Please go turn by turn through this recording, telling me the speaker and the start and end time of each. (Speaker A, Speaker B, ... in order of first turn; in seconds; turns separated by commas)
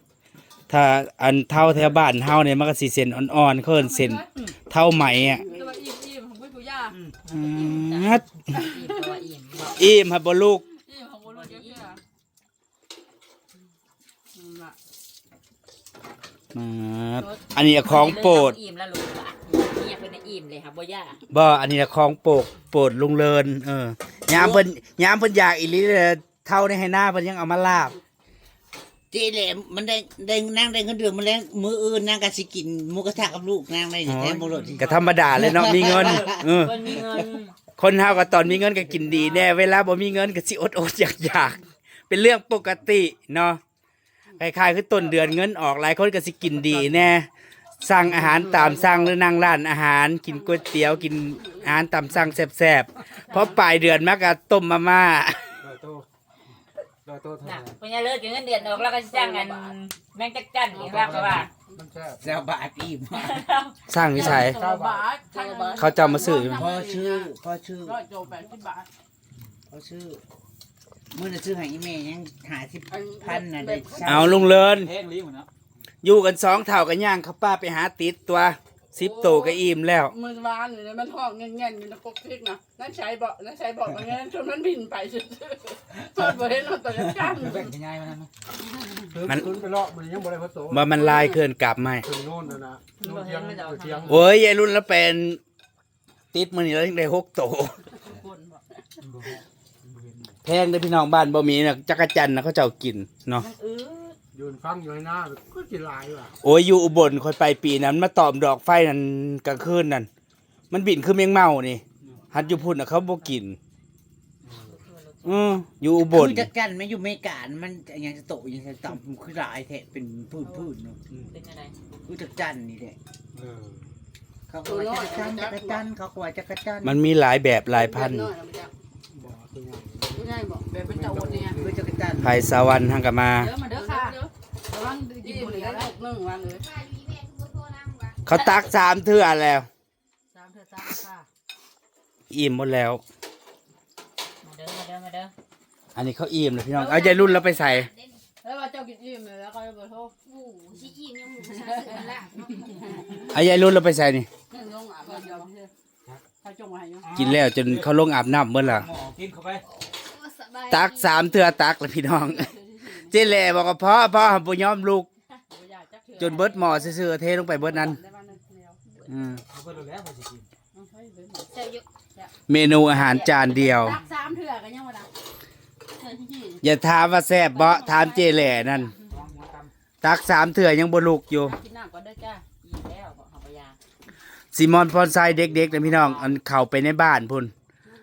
Speaker A: 0.7-5.4, Speaker B: 5.2-7.0, Speaker C: 6.9-7.2, Speaker A: 7.3-8.2, Speaker D: 7.3-9.8, Speaker B: 8.8-9.1, Speaker A: 9.7-10.6, Speaker B: 10.8-12.0, Speaker D: 11.2-11.9, Speaker B: 14.3-14.8, Speaker A: 16.5-18.6, Speaker D: 17.8-21.2, Speaker A: 21.3-28.0, Speaker E: 24.3-24.6, Speaker E: 29.1-37.3, Speaker A: 34.0-36.9, Speaker C: 34.5-35.6, Speaker D: 36.0-37.5, Speaker A: 37.8-43.6, Speaker A: 44.4-47.3, Speaker C: 46.8-47.1, Speaker A: 47.8-55.6, Speaker B: 53.3-53.6, Speaker C: 55.6-56.0, Speaker C: 57.0-57.7, Speaker D: 57.4-61.5, Speaker B: 58.6-59.7, Speaker B: 60.7-61.5, Speaker F: 60.8-62.5, Speaker E: 62.2-63.4, Speaker D: 63.1-63.8, Speaker A: 63.9-64.6, Speaker B: 64.2-67.3, Speaker F: 64.4-65.1, Speaker D: 65.5-65.9, Speaker A: 65.8-66.7, Speaker E: 66.4-68.0, Speaker B: 67.8-68.9, Speaker E: 69.7-70.2, Speaker E: 71.1-74.5, Speaker B: 72.9-74.3, Speaker A: 74.0-74.9, Speaker C: 74.2-75.5, Speaker A: 76.0-80.1, Speaker B: 78.9-87.7, Speaker C: 87.3-88.3, Speaker F: 89.1-90.9, Speaker A: 89.2-89.5, Speaker A: 90.7-92.1, Speaker F: 92.0-94.2, Speaker D: 92.5-94.2, Speaker A: 94.1-95.4, Speaker A: 96.3-97.7, Speaker C: 99.0-100.3, Speaker A: 100.4-103.5, Speaker D: 103.3-104.2, Speaker F: 104.3-106.3, Speaker A: 106.4-110.1, Speaker A: 110.7-113.6, Speaker D: 112.3-112.8, Speaker C: 114.5-114.7, Speaker D: 114.5-115.6, Speaker A: 115.2-116.5, Speaker E: 116.0-121.0, Speaker D: 121.2-121.7, Speaker E: 122.0-123.0, Speaker C: 123.3-123.7, Speaker E: 124.5-127.0, Speaker B: 124.7-125.8, Speaker A: 126.8-128.3, Speaker B: 127.7-128.7, Speaker F: 129.1-131.8, Speaker B: 130.1-131.6, Speaker E: 131.5-132.4, Speaker A: 132.2-133.5, Speaker B: 133.4-136.7, Speaker G: 133.8-134.3, Speaker G: 135.2-135.9, Speaker G: 136.6-138.2, Speaker A: 138.2-139.7, Speaker B: 140.3-141.3, Speaker A: 142.3-143.0, Speaker D: 144.4-145.3, Speaker A: 145.9-147.9, Speaker G: 146.7-148.2, Speaker B: 148.4-150.1, Speaker G: 150.2-153.2, Speaker B: 151.4-153.2, Speaker A: 153.3-154.3, Speaker B: 154.5-155.7, Speaker G: 155.1-155.5, Speaker B: 156.4-157.1, Speaker C: 157.0-157.9, Speaker A: 157.2-158.9, Speaker C: 158.6-159.6, Speaker G: 159.7-161.2, Speaker A: 160.7-162.5, Speaker B: 162.2-163.2, Speaker A: 163.1-165.1, Speaker B: 165.5-166.9, Speaker A: 166.2-168.0, Speaker B: 167.5-168.8, Speaker A: 169.1-169.4, Speaker C: 169.5-170.5, Speaker B: 170.7-171.5, Speaker G: 171.5-171.8, Speaker A: 172.5-174.0, Speaker D: 172.9-173.9, Speaker B: 173.6-175.1, Speaker B: 176.0-176.6, Speaker A: 176.6-178.9, Speaker G: 177.5-178.8, Speaker C: 179.1-179.7, Speaker A: 180.0-181.6, Speaker B: 181.4-182.4, Speaker D: 182.6-183.8, Speaker A: 184.5-187.5, Speaker D: 185.6-186.4